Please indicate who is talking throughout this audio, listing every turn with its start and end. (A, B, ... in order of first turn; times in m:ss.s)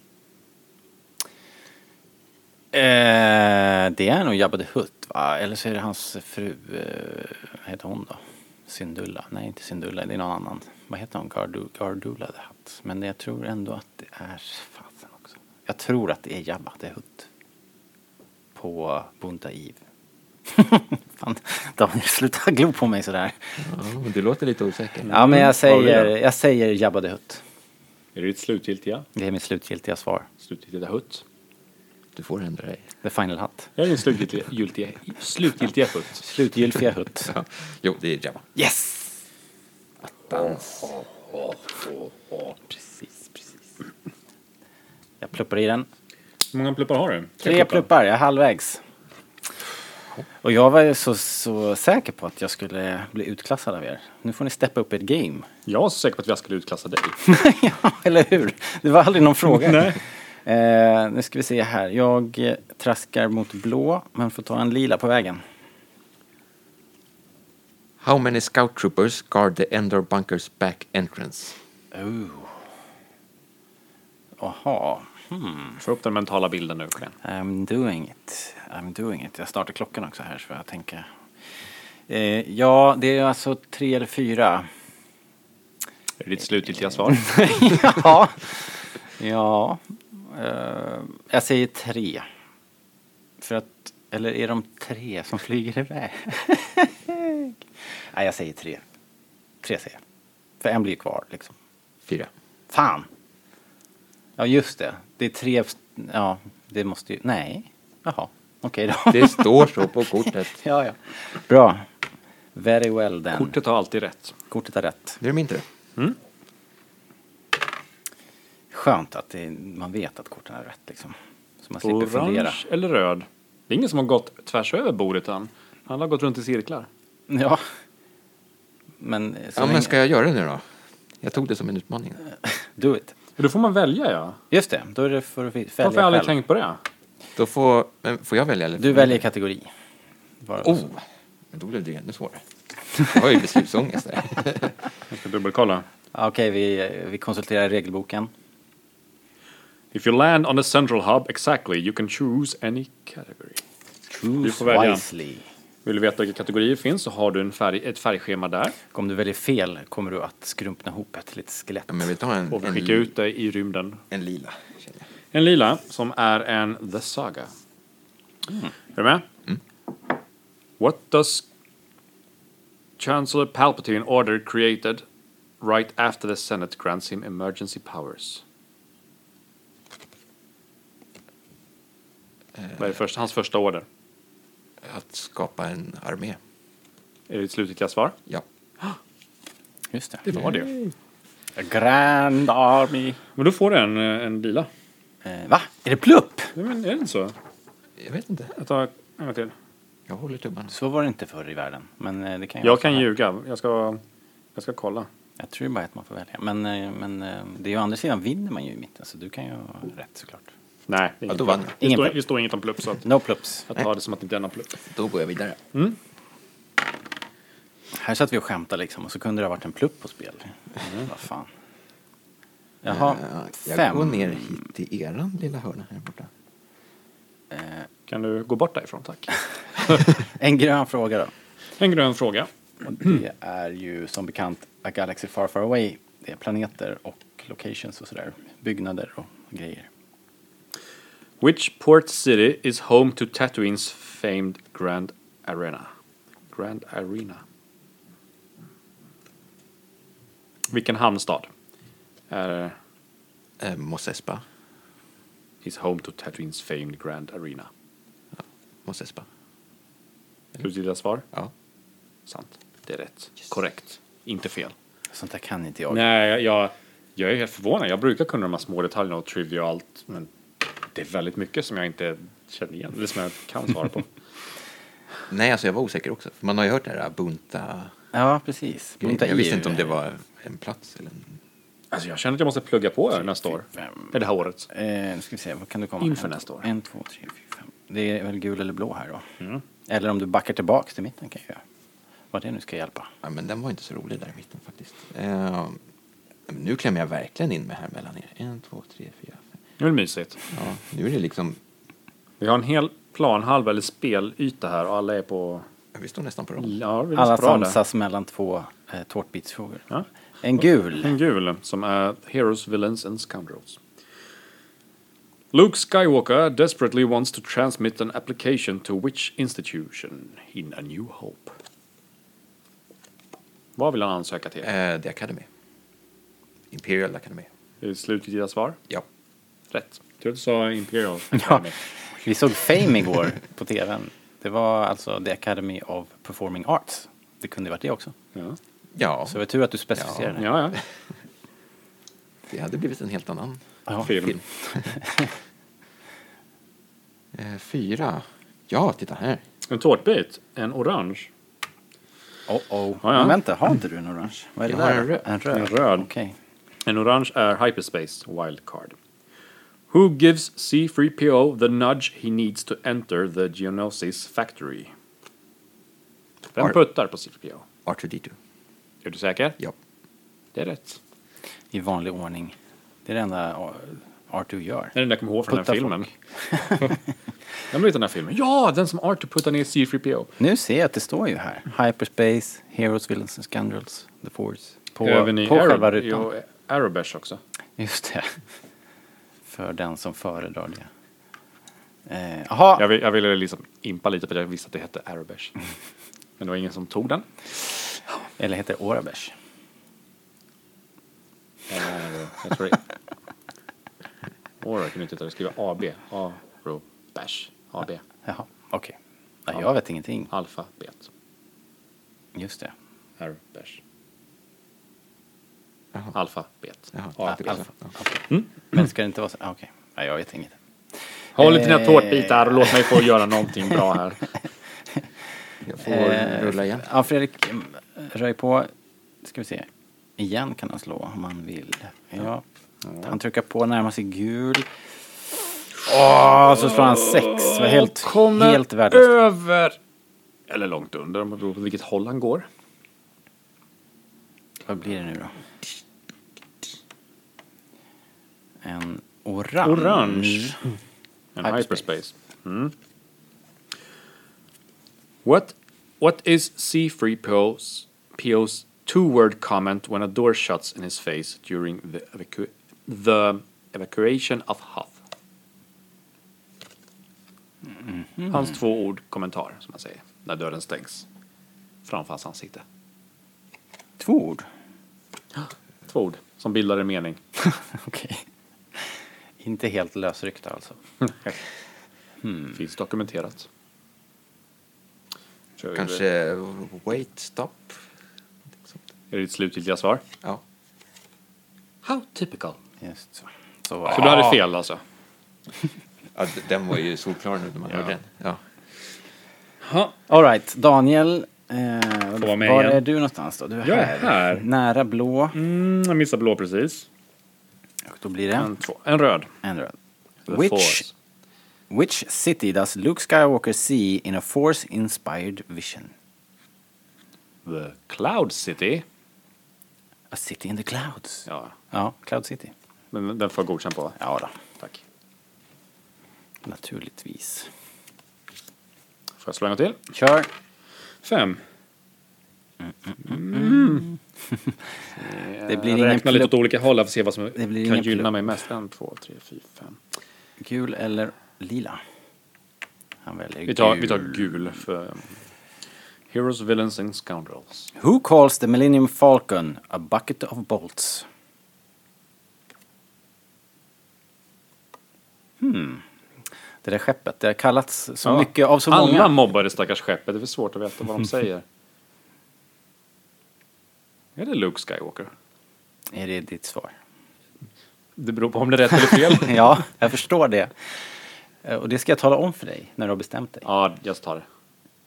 0:02.7-0:17.3 A
0:18.5-0:19.8 A
0:20.5-0:23.6 A
0:23.6-0:25.1 B
0:25.0-0:26.1 C
0:25.1-0:27.4 A
0:28.1-0:29.1 C
0:29.1-0:30.2 A
0:30.4-0:31.2 C
0:32.1-0:32.8 B
0:33.0-0:33.7 A
0:33.8-0:36.2 C
0:36.2-0:37.3 A
0:37.2-0:38.5 B
0:38.6-0:39.2 A
0:40.0-0:40.9 B
0:41.0-0:42.5 C
0:42.7-0:43.5 A
0:45.2-0:45.9 A
0:46.5-0:47.8 C
0:47.4-0:48.8 A
0:50.4-0:55.5 A
0:55.6-0:57.2 C
0:57.2-1:05.4 A
0:59.4-1:00.0 C
1:08.0-1:11.6 B
1:11.9-1:12.6 A
1:14.4-1:15.8 A
1:15.8-1:17.1 C
1:17.2-1:21.1 A
1:22.1-1:24.7 A
1:26.2-1:27.3 C
1:27.1-1:32.2 A
1:33.4-1:38.8 A
1:39.6-1:40.0 A
1:40.6-1:41.6 A
1:42.7-1:43.1 A
1:44.4-1:51.8 A
1:49.1-1:50.6 B
1:52.5-1:53.6 A
1:53.3-1:54.3 C
1:54.5-1:55.2 A
1:55.2-1:55.6 B
1:58.7-2:02.6 A
2:01.8-2:06.9 C
2:07.3-2:07.6 A
2:09.0-2:10.0 A
2:09.6-2:10.6 B
2:11.2-2:12.2 B
2:12.4-2:13.1 A
2:13.4-2:14.4 C
2:14.5-2:16.3 A
2:15.8-2:16.8 C
2:17.4-2:19.2 B
2:18.8-2:19.7 A
2:20.4-2:20.9 A
2:20.6-2:22.4 B
2:23.0-2:24.8 B
2:25.1-2:25.8 C
2:26.1-2:28.3 A
2:29.9-2:33.6 C
2:34.1-2:35.4 A
2:34.4-2:35.0 C
2:35.8-2:38.8 C
2:38.9-2:42.1 A
2:41.9-2:43.1 B
2:42.5-2:44.0 C
2:44.1-2:45.0 B
2:45.3-2:47.5 C
2:48.9-2:49.2 C
2:50.8-2:51.4 C
2:53.0-2:55.0 C
2:55.6-2:58.4 C
3:02.6-3:03.0 B
3:02.8-3:03.8 C
3:04.8-3:06.4 B
3:07.3-3:08.2 C
3:09.9-3:10.4 A
3:10.2-3:10.7 C
3:11.6-3:13.2 A
3:13.4-3:14.7 C
3:15.2-3:16.5 A
3:16.6-3:17.3 C
3:18.0-3:18.5 B
3:18.5-3:19.5 C
3:20.1-3:20.7 B
3:20.7-3:23.1 A
3:22.6-3:24.0 C
3:24.5-3:25.1 C
3:25.4-3:30.5 A
3:30.9-3:33.0 C
3:31.3-3:31.7 B
3:31.8-3:32.2 A
3:33.0-3:33.7 A
3:33.7-3:34.8 C
3:34.8-3:35.6 B
3:37.9-3:41.5 A
3:40.8-3:41.1 C
3:42.8-3:44.6 A
3:42.9-3:46.3 B
3:47.5-3:47.9 A
3:48.1-3:50.0 C
3:50.0-3:51.3 A
3:51.8-3:52.5 C
3:52.8-3:59.9 A
4:01.4-4:05.9 C
4:06.5-4:07.4 C
4:10.7-4:11.5 C
4:12.3-4:12.8 C
4:13.6-4:14.4 B
4:15.6-4:17.7 C
4:18.4-4:19.2 B
4:20.6-4:21.2 C
4:22.3-4:24.7 C
4:25.1-4:26.0 A
4:25.9-4:34.1 C
4:35.3-4:37.9 B
4:38.1-4:39.9 A
4:39.0-4:41.4 B
4:41.9-4:44.7 C
4:43.8-4:44.1 A
4:44.7-4:49.2 A
4:46.0-4:46.7 C
4:49.9-4:51.6 A
4:52.3-4:53.1 A
4:53.2-4:55.8 B
4:56.5-4:59.4 B
4:59.8-5:00.4 C
5:00.5-5:01.6 B
5:02.4-5:05.6 C
5:05.9-5:06.8 B
5:06.6-5:07.8 C
5:07.1-5:09.8 A
5:10.4-5:11.1 A
5:11.0-5:13.8 C
5:15.5-5:21.5 C
5:23.8-5:24.7 C
5:24.6-5:25.4 B
5:26.7-5:27.5 B
5:27.8-5:28.8 C
5:29.7-5:31.8 C
5:31.3-5:38.1 A
5:38.9-5:39.4 B
5:39.3-5:40.5 A
5:40.0-5:40.4 B
5:40.4-5:40.8 C
5:42.5-5:44.9 B
5:44.0-5:44.4 C
5:44.7-5:45.3 A
5:47.3-5:49.4 B
5:49.7-5:51.3 C
5:52.5-5:56.4 A
5:53.0-5:53.4 C
5:54.6-5:55.2 B
5:55.5-5:56.1 C
5:56.8-5:59.0 C
5:59.9-6:04.9 C
6:06.5-6:07.6 C
6:07.8-6:08.3 B
6:09.0-6:09.6 C
6:10.5-6:11.0 C
6:11.7-6:12.5 A
6:13.0-6:14.9 A
6:14.9-6:16.1 C
6:15.5-6:17.0 A
6:17.7-6:20.3 C
6:20.4-6:26.3 A
6:25.0-6:27.4 C
6:27.8-6:28.4 A
6:29.5-6:30.9 A
6:32.1-6:32.8 A
6:32.8-6:35.5 C
6:36.4-6:37.3 C
6:38.4-6:39.3 A
6:41.7-6:42.8 C
6:44.6-6:48.0 C
6:48.2-6:50.3 A
6:50.3-6:51.1 C
6:52.3-6:52.7 A
6:53.2-6:53.8 C
6:56.1-6:57.6 C
6:56.9-6:57.9 B
6:57.3-7:00.6 A
6:58.3-6:58.8 C
7:01.4-7:04.3 C
7:01.4-7:03.0 A
7:05.6-7:06.9 B
7:05.8-7:08.7 A
7:09.2-7:12.4 A
7:12.8-7:13.1 C
7:13.0-7:14.7 A
7:15.8-7:19.1 A
7:16.2-7:19.8 C
7:20.5-7:22.5 C
7:24.6-7:25.3 A
7:28.6-7:30.6 A
7:29.6-7:30.6 C
7:31.4-7:32.7 C
7:31.4-7:31.8 A
7:35.2-7:45.0 C
7:47.8-7:48.5 A
7:48.3-7:51.0 C
7:51.8-7:52.6 C
7:54.0-7:54.4 A
7:55.4-7:57.2 C
7:57.4-7:58.2 A
7:58.7-8:00.8 A
8:01.0-8:01.4 C
8:02.2-8:02.6 A
8:02.5-8:03.5 C
8:05.6-8:06.0 C
8:05.7-8:07.8 B
8:09.1-8:10.0 C
8:11.8-8:12.6 C
8:12.8-8:14.4 A
8:13.9-8:14.8 C
8:16.1-8:18.4 B
8:19.6-8:19.9 C
8:20.1-8:25.4 A
8:22.2-8:22.8 C
8:23.6-8:24.4 C
8:25.3-8:26.9 C
8:27.9-8:28.5 A
8:28.4-8:29.3 C
8:29.4-8:29.7 A
8:30.3-8:30.9 C
8:30.3-8:30.9 A
8:31.7-8:35.9 A
8:37.4-8:38.8 C
8:40.1-8:42.5 A
8:41.3-8:41.5 C
8:42.9-8:44.0 C
8:44.0-8:44.3 A
8:46.4-8:47.5 A
8:49.2-8:49.8 C
8:49.9-8:50.3 A
8:51.0-8:51.4 C
8:52.9-8:54.6 A
8:53.0-8:53.9 C
8:55.0-8:59.8 C
8:55.4-8:56.4 A
8:57.4-8:58.1 A
9:00.4-9:01.8 A
9:03.0-9:04.4 A
9:03.5-9:05.2 C
9:06.1-9:07.7 C
9:07.8-9:11.1 A
9:15.4-9:15.8 A
9:16.6-9:19.2 A
9:18.0-9:21.4 C
9:24.2-9:25.1 C
9:25.9-9:26.7 A
9:28.0-9:29.6 C
9:28.8-9:30.5 A
9:31.4-9:33.5 A
9:33.4-9:34.2 C